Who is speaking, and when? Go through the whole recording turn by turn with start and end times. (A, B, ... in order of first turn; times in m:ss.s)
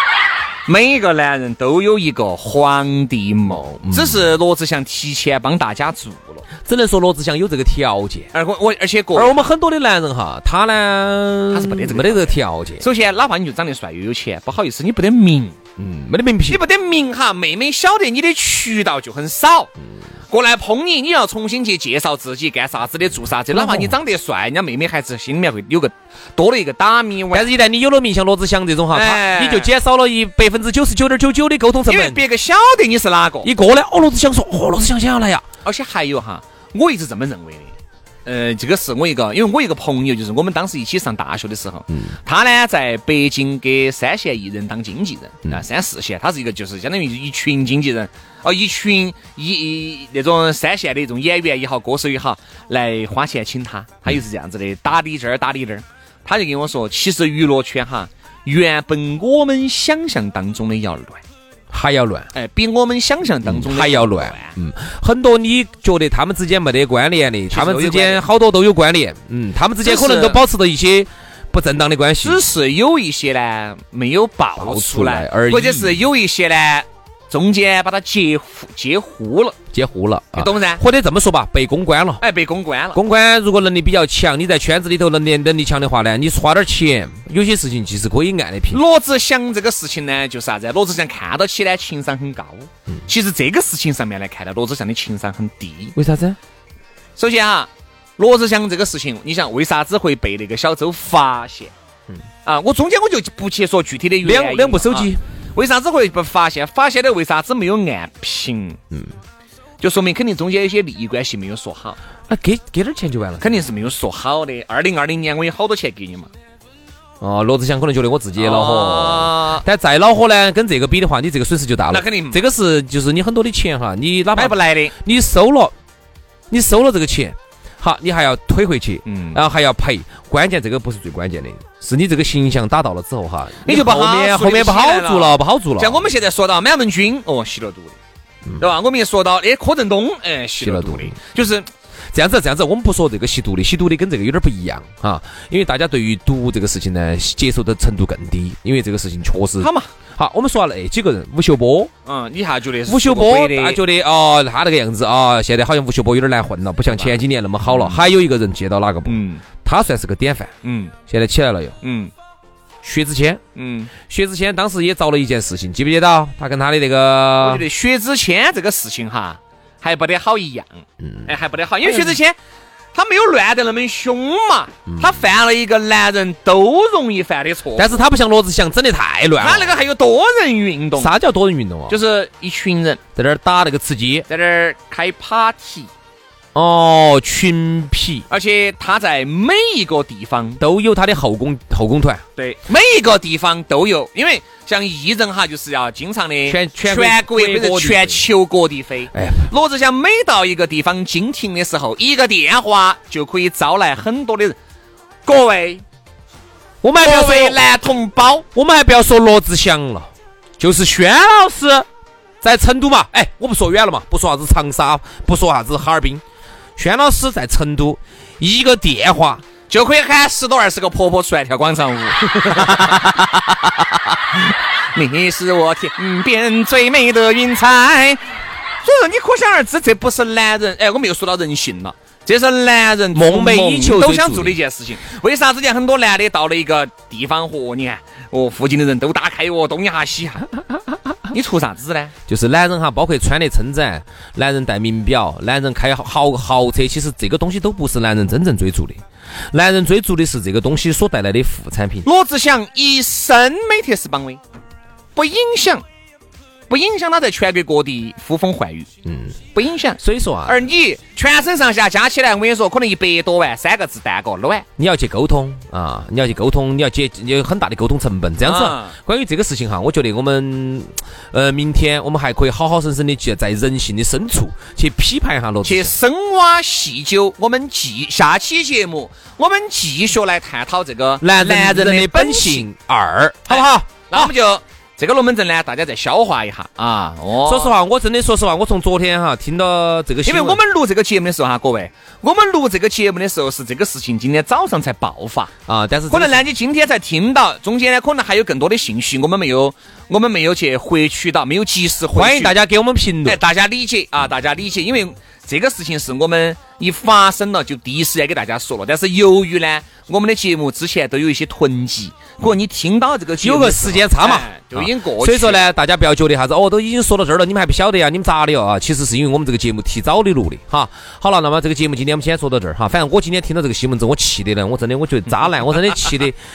0:00.7-0:06.5 A
0:03.5-0:04.3 B
0:06.6-0:08.3 B
0:08.3-0:09.4 A
0:09.1-0:12.8 B
0:11.5-0:15.6 A
0:15.8-0:16.6 B
0:16.5-0:19.7 A
0:20.3-0:27.5 A
0:23.5-0:23.9 B
0:27.3-0:32.2 B
0:28.9-0:29.7 A
0:31.9-0:33.5 A
0:33.4-0:35.4 B
0:35.6-1:01.2 A
1:01.7-1:02.3 B
1:02.3-1:04.6 A
1:03.4-1:12.4 B
1:07.5-1:08.2 A
1:09.8-1:10.4 A
1:12.2-1:19.6 A
1:14.6-1:16.0 B
1:19.7-1:22.2 B
1:20.4-1:20.8 A
1:22.2-1:23.0 A
1:22.9-1:28.8 B
1:28.7-1:36.0 A
1:36.0-1:36.4 B
1:37.2-1:41.7 A
1:42.4-1:48.8 A
1:44.2-1:45.2 B
1:49.8-1:52.0 A
1:52.3-1:53.6 B
1:53.4-1:56.3 A
1:57.2-2:05.7 B
1:58.4-1:59.6 A
2:01.9-2:02.4 A
2:04.4-2:04.9 A
2:06.5-2:16.1 B
2:09.1-2:09.4 A
2:13.6-2:18.0 A
2:18.6-2:21.7 A
2:20.6-2:21.2 B
2:22.1-2:31.9 B
2:29.6-2:29.9 A
2:32.1-2:33.8 A
2:32.9-2:40.5 B
2:36.9-2:38.0 A
2:39.1-2:39.4 A
2:40.6-2:40.9 A
2:41.1-2:41.8 B
2:41.8-2:42.1 A
2:42.8-2:43.4 B
2:43.6-2:43.9 A
2:44.0-2:47.6 B
2:47.4-2:52.4 A
2:51.0-2:51.3 B
2:51.8-2:52.2 B
2:52.9-2:58.0 A
2:54.9-2:55.2 B
2:57.8-2:59.8 B
2:59.4-3:01.1 A
3:01.0-3:02.0 B
3:01.9-3:03.0 A
3:03.2-3:04.3 B
3:04.3-3:05.9 A
3:06.6-3:08.3 B
3:08.3-3:10.6 A
3:10.6-3:12.2 B
3:12.4-3:24.6 A
3:16.5-3:18.3 B
3:19.1-3:19.5 B
3:25.3-3:25.8 A
3:26.8-3:27.6 B
3:27.0-3:28.5 A
3:28.6-3:31.9 B
3:32.4-3:36.2 B
3:36.8-3:39.4 B
3:39.7-3:43.8 A
3:42.4-3:42.9 B
3:44.4-3:48.2 A
3:48.8-4:00.5 A
3:53.1-3:54.6 B
4:01.3-4:02.1 A
4:02.3-4:12.1 B
4:12.0-4:14.4 A
4:15.2-4:15.8 A
4:16.7-4:18.9 A
4:19.0-4:19.4 B
4:19.5-4:24.6 A
4:20.0-4:20.6 B
4:24.8-4:35.9 B
4:28.4-4:29.0 A
4:35.6-4:42.6 A
4:41.2-4:44.3 B
4:43.5-4:47.8 A
4:47.4-4:50.6 B
4:50.2-4:55.5 A
4:55.7-4:56.4 B
4:56.1-5:02.6 A
5:02.1-5:03.4 B
5:03.2-5:15.6 A
5:13.4-5:26.4 B
5:25.7-5:26.1 A